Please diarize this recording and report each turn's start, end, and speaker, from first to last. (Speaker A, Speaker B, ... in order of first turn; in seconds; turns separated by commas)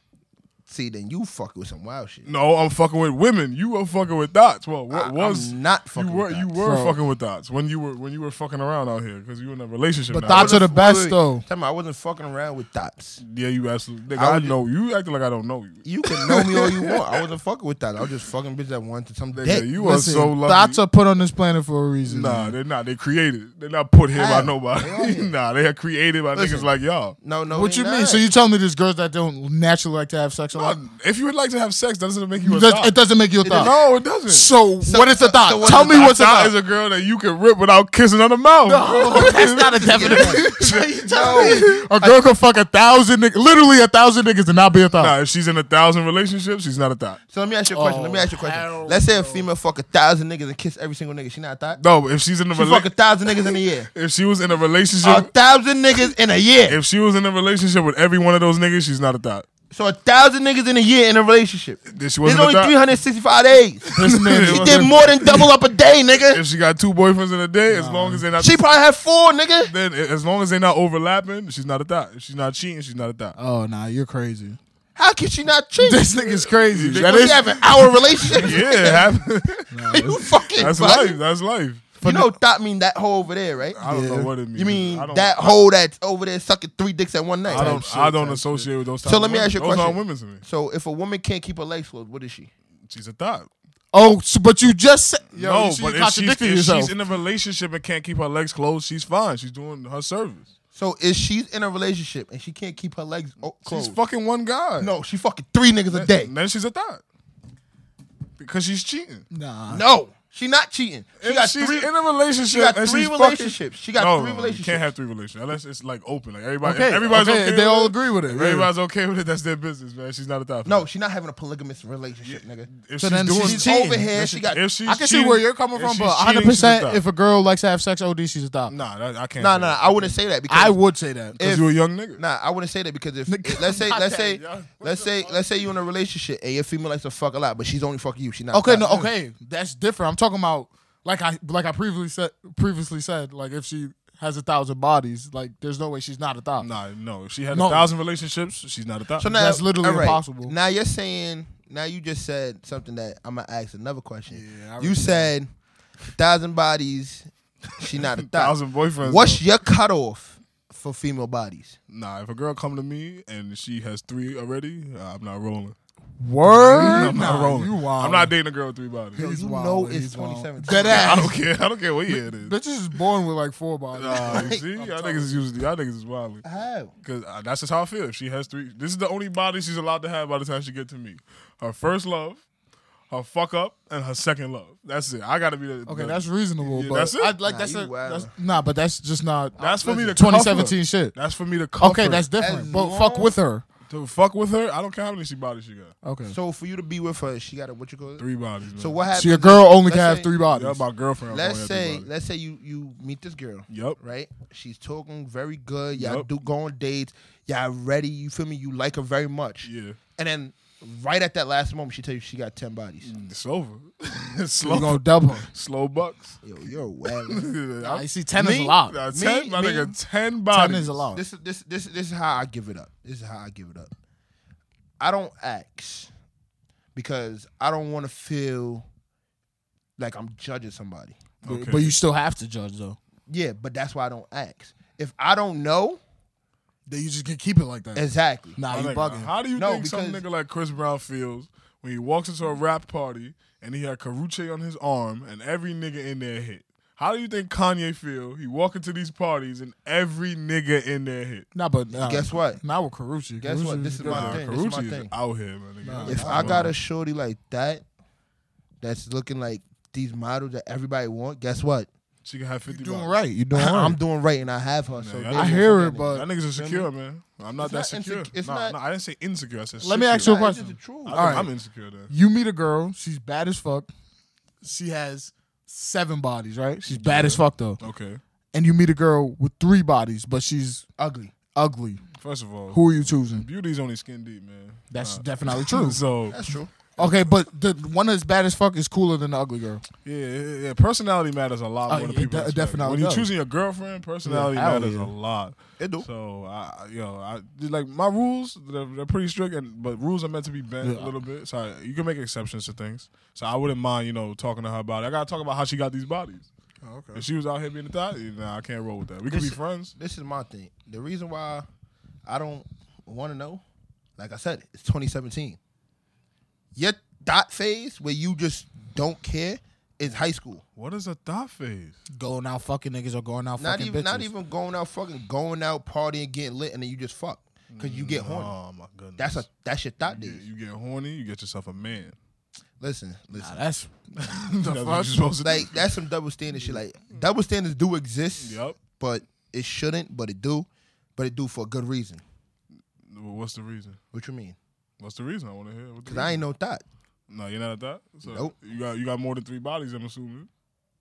Speaker A: 0.7-2.3, Speaker B: 2.2-10.6, Speaker A: 4.9-6.5, Speaker C: 6.6-7.0, Speaker C: 10.1-11.4, Speaker A: 10.3-13.2, Speaker B: 13.2-17.0, Speaker A: 14.1-14.6, Speaker A: 15.8-19.7, Speaker B: 19.3-20.8, Speaker C: 19.8-22.6, Speaker B: 22.1-27.2, Speaker A: 24.1-25.3, Speaker A: 26.3-28.3, Speaker C: 27.5-30.8, Speaker B: 30.5-33.0, Speaker C: 32.4-33.7, Speaker A: 33.4-33.7, Speaker B: 33.5-34.5, Speaker C: 34.3-36.5, Speaker A: 34.8-36.1, Speaker B: 35.6-41.9, Speaker C: 38.7-45.1, Speaker A: 39.9-42.2, Speaker B: 45.0-47.2, Speaker A: 47.3-51.8, Speaker C: 47.7-49.5, Speaker B: 51.8-52.9, Speaker A: 52.5-53.9, Speaker B: 53.5-55.3, Speaker A: 55.0-56.8, Speaker B: 56.7-59.5, Speaker A: 59.7-66.4, Speaker B: 61.9-62.8, Speaker B: 63.9-65.5, Speaker C: 64.0-65.5, Speaker B: 66.3-68.6, Speaker C: 67.7-68.2, Speaker A: 68.4-69.7, Speaker B: 69.6-73.4, Speaker C: 73.4-74.6, Speaker A: 75.0-76.1, Speaker C: 75.8-78.3, Speaker B: 76.5-77.7, Speaker A: 76.9-79.2, Speaker B: 78.2-79.7, Speaker C: 79.7-80.5, Speaker A: 79.9-81.2, Speaker B: 80.5-82.0, Speaker C: 82.0-82.3, Speaker A: 82.0-83.9, Speaker B: 83.7-85.5, Speaker C: 83.9-84.3, Speaker A: 84.5-87.9, Speaker C: 87.5-88.7, Speaker B: 87.5-90.4, Speaker A: 89.0-92.5, Speaker B: 92.9-93.5, Speaker C: 93.9-96.9, Speaker B: 95.3-100.5, Speaker A: 100.7-104.0, Speaker B: 103.6-104.9, Speaker A: 104.8-106.3, Speaker B: 105.9-107.0, Speaker B: 108.4-109.3, Speaker C: 109.3-109.8, Speaker A: 109.7-111.9, Speaker B: 111.2-120.8, Speaker A: 112.5-114.9, Speaker C: 116.6-118.7, Speaker A: 120.7-122.7, Speaker B: 122.2-127.0, Speaker C: 123.0-128.7, Speaker A: 123.4-124.6, Speaker B: 128.7-130.1, Speaker A: 129.4-130.8, Speaker C: 130.5-131.4, Speaker A: 131.4-139.1, Speaker B: 131.4-132.2, Speaker C: 133.3-135.4, Speaker C: 138.5-146.7, Speaker B: 146.6-149.3, Speaker C: 147.5-147.9, Speaker A: 149.2-155.5, Speaker C: 149.2-150.6, Speaker C: 154.3-155.3, Speaker A: 156.2-161.8, Speaker B: 158.2-159.4, Speaker B: 161.9-165.8, Speaker C: 166.2-168.3, Speaker B: 166.4-169.2, Speaker C: 169.2-171.4, Speaker A: 169.2-171.4, Speaker B: 170.8-172.6, Speaker C: 172.1-175.5, Speaker B: 173.9-176.4, Speaker A: 174.2-174.6, Speaker A: 176.4-176.9, Speaker B: 177.0-182.4, Speaker B: 183.1-187.3, Speaker C: 185.9-189.6, Speaker A: 187.4-188.3, Speaker A: 189.6-190.3, Speaker B: 189.6-192.3, Speaker C: 190.1-191.2, Speaker C: 191.8-193.6, Speaker A: 192.4-193.3, Speaker B: 193.9-195.9, Speaker C: 196.0-196.3, Speaker A: 196.3-200.3, Speaker B: 198.2-199.0, Speaker C: 199.1-200.8, Speaker B: 200.5-202.1, Speaker A: 201.3-213.1, Speaker B: 203.7-204.0, Speaker B: 205.9-206.3, Speaker B: 209.6-210.0, Speaker B: 213.0-216.4, Speaker C: 214.6-215.5, Speaker A: 216.4-217.6, Speaker B: 217.1-218.1, Speaker C: 217.8-219.0, Speaker A: 218.3-220.0, Speaker B: 218.9-221.0, Speaker C: 220.5-221.2, Speaker A: 221.1-223.9, Speaker A: 225.0-226.1, Speaker A: 226.9-228.9, Speaker A: 230.0-231.2, Speaker B: 231.4-232.0, Speaker C: 231.4-233.0, Speaker A: 233.3-236.0, Speaker C: 236.9-239.3, Speaker A: 237.9-238.6, Speaker B: 238.7-251.5, Speaker A: 239.6-240.2, Speaker C: 251.5-254.4, Speaker A: 252.0-252.6, Speaker A: 253.4-255.1, Speaker B: 254.0-256.7, Speaker C: 255.8-256.7, Speaker A: 256.1-257.8, Speaker A: 258.8-261.9, Speaker B: 262.2-263.1, Speaker C: 262.7-264.0, Speaker A: 263.5-266.9, Speaker B: 265.0-270.4, Speaker C: 265.3-266.3, Speaker A: 267.6-268.8, Speaker C: 269.8-271.5, Speaker A: 270.2-271.5, Speaker B: 271.1-272.1, Speaker C: 272.1-273.9, Speaker C: 274.6-277.8, Speaker B: 276.9-278.2, Speaker C: 278.5-280.9, Speaker A: 281.0-281.3, Speaker C: 281.5-282.1, Speaker B: 282.2-286.4, Speaker C: 282.7-283.5, Speaker C: 284.9-286.0, Speaker A: 286.3-286.7, Speaker B: 287.0-287.3, Speaker C: 287.0-289.8, Speaker B: 290.1-306.5, Speaker C: 291.9-293.3, Speaker C: 294.2-295.1, Speaker A: 295.8-296.1, Speaker C: 300.8-301.1, Speaker C: 306.8-307.2, Speaker B: 307.1-309.9, Speaker A: 309.3-311.7, Speaker A: 312.3-313.6, Speaker A: 314.2-315.6, Speaker A: 316.8-320.6, Speaker B: 320.8-322.0, Speaker C: 322.1-324.3, Speaker A: 323.6-328.5, Speaker B: 327.7-329.5, Speaker A: 329.2-330.4, Speaker B: 330.1-332.1, Speaker A: 332.8-333.6, Speaker C: 333.4-335.2, Speaker B: 334.1-335.8, Speaker A: 335.4-342.2, Speaker B: 338.4-338.8, Speaker B: 343.1-344.0, Speaker A: 344.1-344.6, Speaker B: 345.0-346.4, Speaker A: 346.1-346.8, Speaker B: 347.3-350.5, Speaker A: 348.2-348.5